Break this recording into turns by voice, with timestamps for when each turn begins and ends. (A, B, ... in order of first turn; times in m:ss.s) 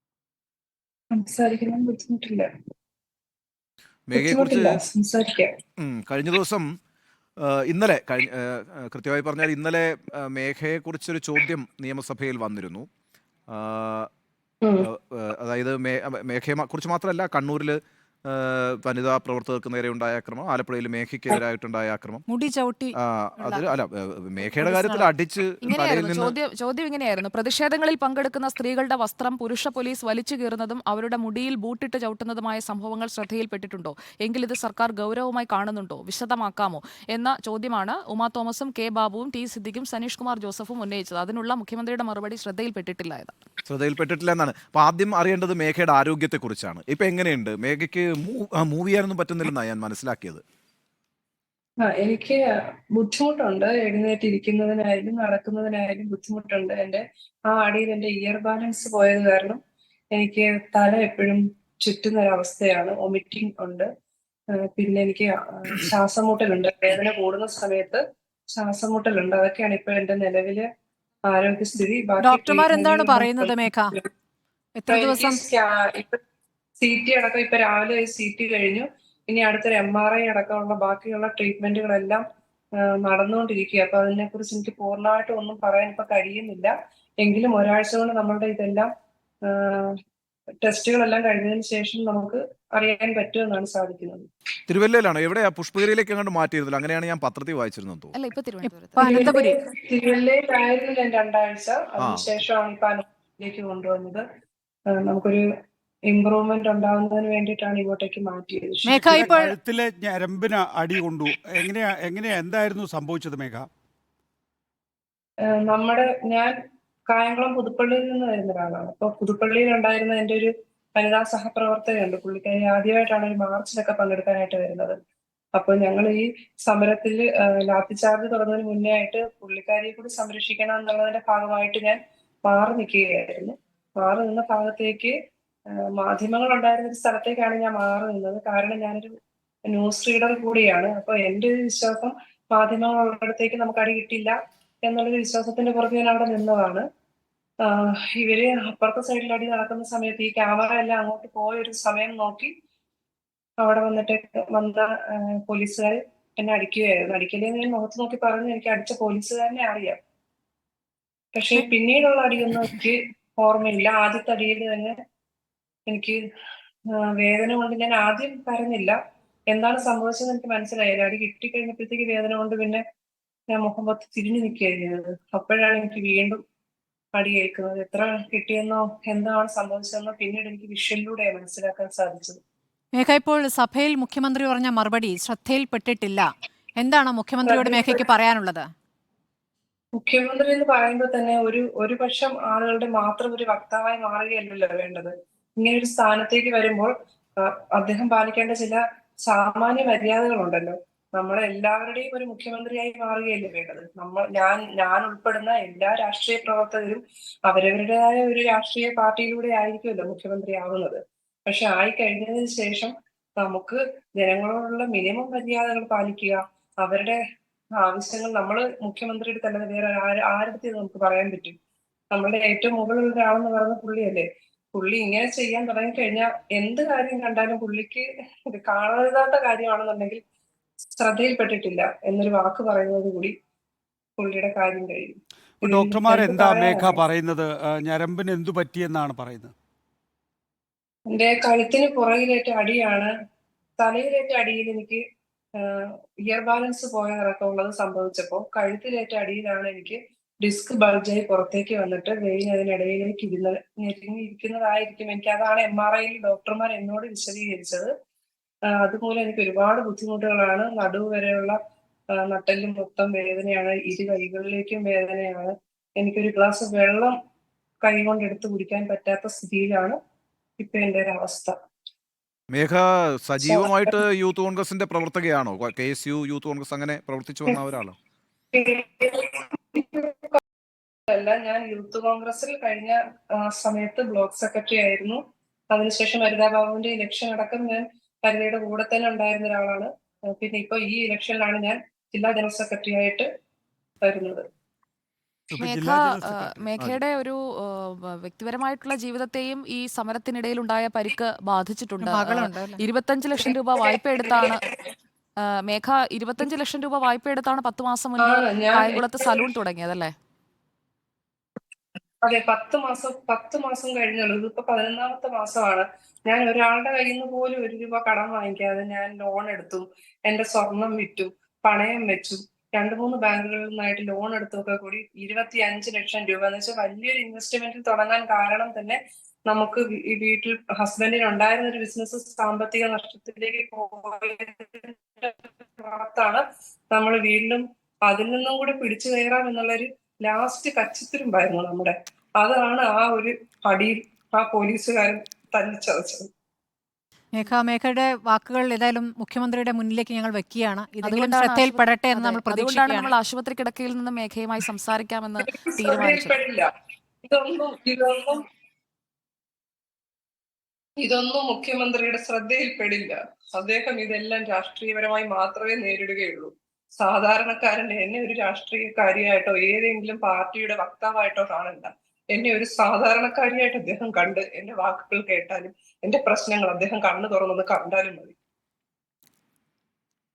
0:01.1-0:02.5 A
0:04.1-0:04.8 B
0:04.2-0:05.6 A
0:05.8-0:06.7 B
0:07.4-0:12.9 B
0:13.5-0:14.1 B
0:14.6-0:14.9 A
0:14.8-0:22.2 B
0:22.3-0:23.7 C
0:23.0-0:26.4 B
0:24.5-0:25.1 C
0:25.6-0:43.4 D
0:43.7-0:50.4 B
0:51.8-0:52.4 A
0:53.0-0:59.6 A
1:00.1-1:03.9 A
1:04.6-1:08.0 A
1:08.6-1:10.6 A
1:11.3-1:14.0 A
1:12.2-1:13.9 C
1:14.8-1:15.5 C
1:14.9-1:16.2 A
1:16.8-1:22.2 A
1:23.0-1:28.9 A
1:29.5-1:30.0 A
1:30.6-1:34.3 A
1:34.7-1:38.1 B
1:38.1-1:39.3 D
1:39.0-1:39.6 C
1:39.0-1:44.2 A
1:44.9-1:45.4 A
1:46.1-1:49.4 A
1:48.8-1:49.6 C
1:48.9-1:53.7 E
1:55.5-1:56.6 A
1:57.1-2:05.0 A
2:05.6-2:15.2 A
2:15.9-2:19.1 A
2:19.7-2:26.9 A
2:27.6-2:32.5 A
2:33.6-2:40.0 A
2:41.4-2:45.0 A
2:45.9-2:46.2 A
2:47.0-2:49.0 A
2:49.5-2:52.8 A
2:53.5-2:56.4 A
2:57.2-3:02.4 A
3:02.9-3:08.7 C
3:07.4-3:08.0 A
3:10.0-3:37.2 A
3:37.8-3:41.6 A
3:42.1-3:50.2 A
3:51.0-3:53.4 A
3:54.2-3:57.0 A
3:55.6-3:59.5 E
4:01.1-4:03.1 A
4:03.8-4:05.0 A
4:05.6-4:17.9 A
4:18.8-4:21.6 A
4:22.2-4:27.2 A
4:27.8-4:30.0 A
4:30.6-4:31.6 A
4:32.5-4:38.0 B
4:33.4-4:33.9 A
4:38.5-4:40.4 A
4:41.1-4:45.2 A
4:45.7-4:53.3 A
4:54.0-4:54.4 A
4:55.5-4:56.6 E
4:55.6-5:04.6 D
5:02.0-5:02.8 C
5:05.4-5:10.1 D
5:08.2-5:09.4 A
5:12.2-5:46.3 A
5:47.3-5:53.1 C
5:51.0-5:56.4 D
5:55.5-5:56.7 A
5:57.2-5:58.4 A
6:01.0-6:18.3 A